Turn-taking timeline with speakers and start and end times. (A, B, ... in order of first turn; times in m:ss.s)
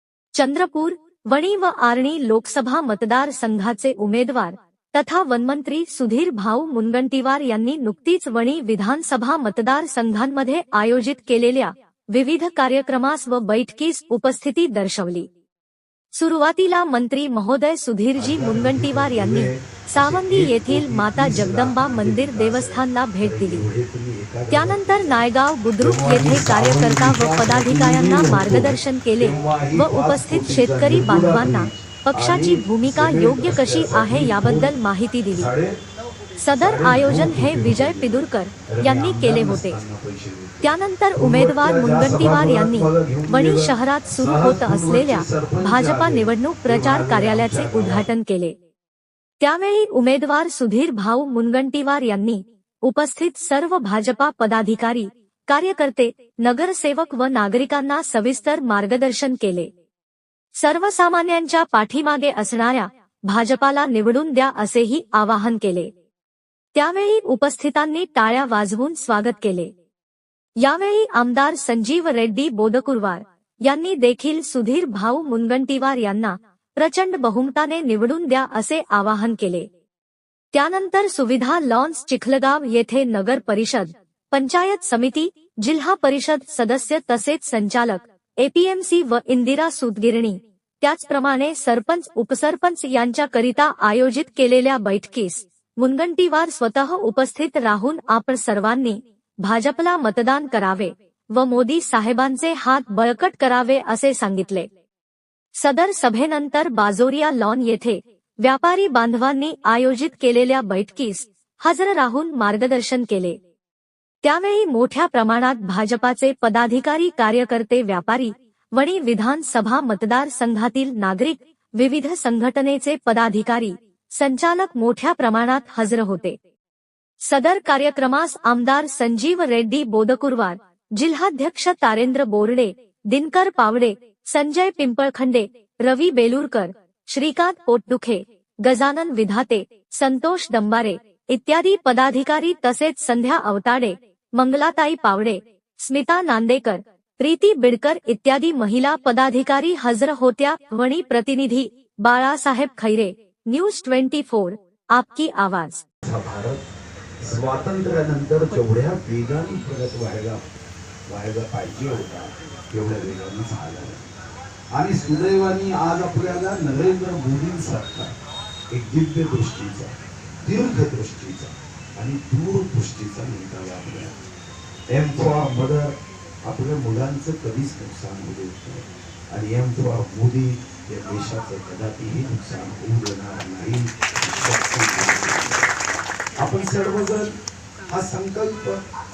0:00.3-0:15.3 A
0:16.1-0:23.6 A
0:18.1-0:34.7 B
0:24.5-0:35.5 A
0:35.3-0:35.8 B
0:36.4-0:39.8 A
0:36.6-0:48.1 B
0:40.6-0:48.6 A
0:49.4-0:59.7 A
1:00.6-1:05.9 A
1:06.7-1:09.7 A
1:10.6-1:19.7 A
1:20.5-1:44.7 A
1:45.5-1:53.4 A
1:54.2-2:06.4 A
2:07.3-2:35.8 A
2:36.0-2:36.6 B
2:37.2-2:40.4 B
2:41.1-2:44.0 B
2:44.7-2:48.1 B
2:48.7-2:54.2 B
2:54.9-3:05.7 B
3:06.4-3:07.3 B
3:07.9-3:08.8 B